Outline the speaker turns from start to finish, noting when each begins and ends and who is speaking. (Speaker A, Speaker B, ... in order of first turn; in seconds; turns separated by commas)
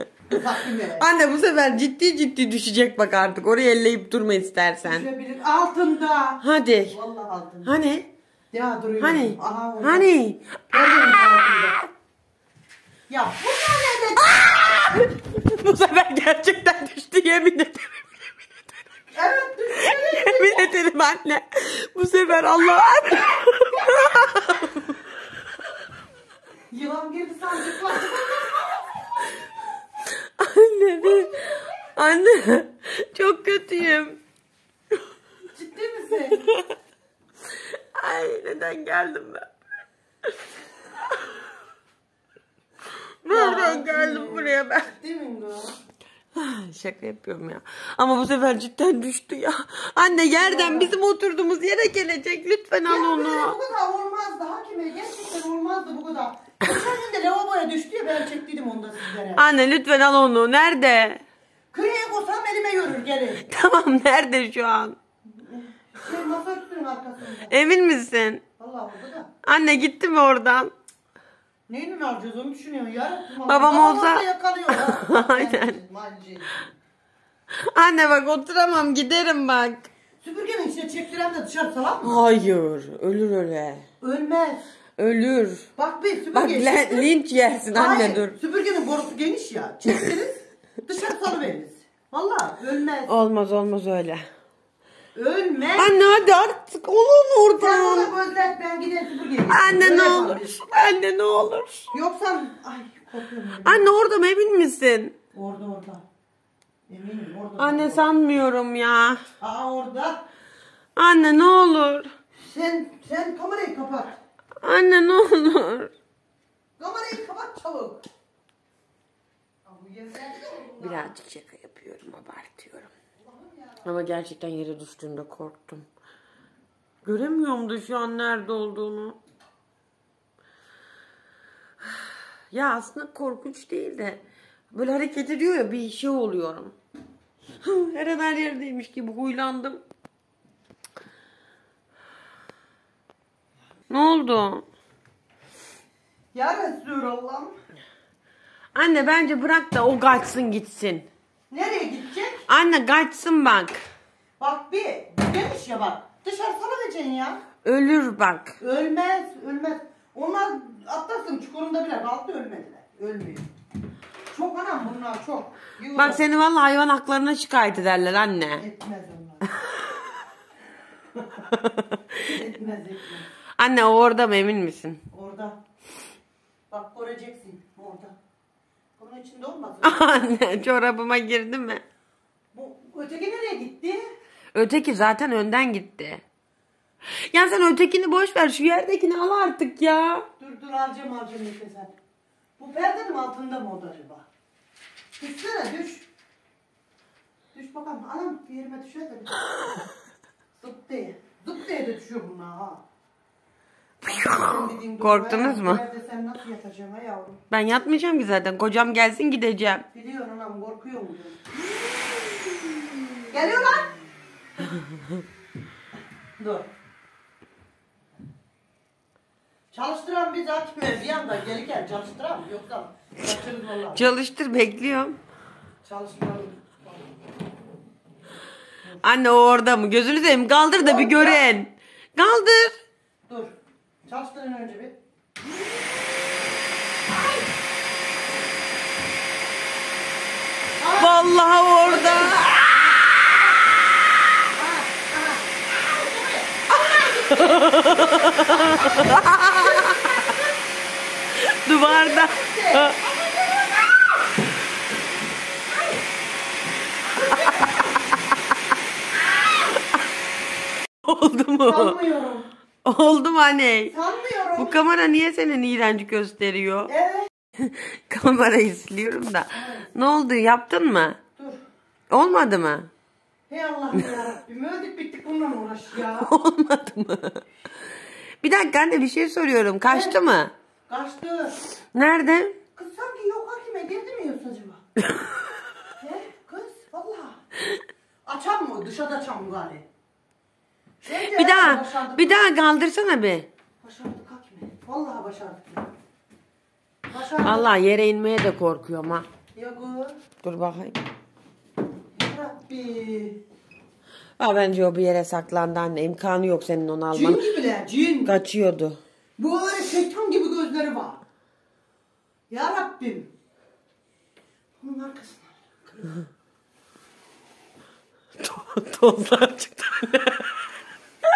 Speaker A: 0.3-1.1, Speaker B: 1.0-5.1, Speaker A: 4.8-7.7, Speaker B: 6.4-7.0, Speaker B: 7.7-8.1, Speaker A: 8.5-10.1, Speaker B: 9.0-11.9, Speaker A: 10.7-11.8, Speaker A: 13.1-14.3, Speaker B: 14.2-18.2, Speaker A: 19.1-20.7, Speaker B: 19.8-25.0, Speaker A: 26.7-28.9, Speaker B: 30.4-34.2, Speaker A: 31.0-31.3, Speaker A: 35.5-36.5, Speaker B: 36.4-36.7, Speaker B: 38.0-39.5, Speaker B: 43.2-44.9, Speaker A: 43.3-45.8, Speaker B: 46.3-53.6, Speaker A: 50.2-51.0, Speaker A: 52.9-59.5, Speaker B: 59.4-61.2, Speaker A: 61.7-63.5, Speaker B: 63.4-65.0, Speaker A: 65.3-67.5, Speaker B: 67.5-68.4, Speaker A: 68.6-69.3, Speaker B: 69.4-70.7, Speaker A: 71.7-76.8, Speaker B: 73.5-75.8, Speaker B: 77.5-79.9, Speaker A: 80.2-82.2, Speaker B: 82.0-83.8, Speaker A: 84.0-84.6, Speaker B: 85.0-85.7, Speaker A: 85.8-93.2, Speaker B: 86.3-88.4, Speaker B: 93.1-94.2, Speaker A: 95.1-96.1, Speaker B: 95.8-98.1, Speaker A: 97.6-100.6, Speaker B: 99.5-101.9, Speaker A: 101.9-103.9, Speaker B: 103.6-105.2, Speaker A: 105.3-106.0, Speaker A: 106.9-108.1, Speaker B: 107.6-109.2, Speaker A: 109.4-110.2, Speaker B: 111.0-112.1, Speaker A: 112.4-114.2, Speaker B: 114.6-115.9, Speaker A: 116.8-118.0, Speaker A: 119.7-121.1, Speaker B: 120.8-122.9, Speaker A: 123.2-124.0, Speaker B: 123.8-125.9, Speaker B: 127.0-129.2, Speaker B: 131.8-136.8, Speaker B: 137.6-139.8, Speaker B: 143.9-144.7, Speaker A: 146.3-147.6, Speaker B: 148.7-151.1, Speaker A: 151.5-152.5, Speaker B: 152.5-153.8, Speaker A: 154.4-157.4, Speaker B: 157.6-158.6, Speaker A: 158.6-163.5, Speaker A: 164.3-166.2, Speaker B: 166.0-168.6, Speaker A: 168.6-169.5, Speaker B: 171.3-172.2, Speaker A: 172.2-173.3, Speaker B: 173.6-175.0, Speaker A: 175.1-175.6, Speaker A: 176.7-178.2, Speaker A: 179.0-180.3, Speaker B: 179.8-181.8, Speaker A: 182.5-184.1, Speaker B: 184.5-186.2, Speaker B: 187.3-190.3, Speaker A: 190.4-191.9, Speaker A: 192.6-194.3, Speaker A: 195.1-196.1, Speaker A: 197.5-199.4, Speaker A: 200.6-202.8, Speaker A: 204.1-207.4, Speaker B: 204.1-205.8, Speaker B: 207.5-209.9, Speaker A: 209.9-211.4, Speaker B: 212.1-213.0, Speaker A: 213.3-213.9, Speaker A: 216.4-216.7, Speaker A: 219.7-224.1, Speaker B: 223.9-225.2, Speaker A: 225.8-227.1, Speaker B: 229.0-232.8, Speaker A: 230.7-231.5, Speaker A: 233.3-233.5, Speaker A: 234.1-235.0, Speaker A: 240.8-241.2, Speaker B: 241.0-242.6, Speaker A: 241.8-242.8, Speaker A: 244.4-250.6, Speaker B: 246.7-250.3, Speaker B: 251.4-253.0, Speaker A: 251.8-254.0, Speaker A: 257.1-258.0, Speaker B: 261.1-262.0, Speaker A: 261.6-262.5, Speaker B: 262.9-263.9, Speaker A: 263.9-264.8, Speaker B: 264.6-266.9, Speaker A: 266.9-267.3, Speaker B: 267.6-271.2, Speaker A: 269.5-269.9, Speaker B: 272.1-272.9, Speaker A: 273.5-276.3, Speaker B: 276.1-277.4, Speaker B: 278.4-280.5, Speaker A: 279.9-280.2, Speaker A: 280.9-281.6, Speaker B: 281.9-282.6, Speaker A: 282.8-284.8, Speaker A: 286.0-287.4, Speaker A: 288.3-289.9, Speaker A: 291.0-292.5, Speaker B: 291.2-293.5, Speaker A: 293.8-295.9, Speaker A: 297.1-297.8, Speaker B: 297.4-299.3, Speaker A: 299.5-300.2, Speaker B: 300.4-301.0, Speaker A: 302.2-303.4, Speaker B: 304.4-307.4, Speaker A: 307.1-308.4, Speaker B: 308.2-309.0, Speaker A: 309.4-311.2, Speaker A: 312.5-313.3, Speaker A: 314.8-316.2, Speaker B: 318.4-320.6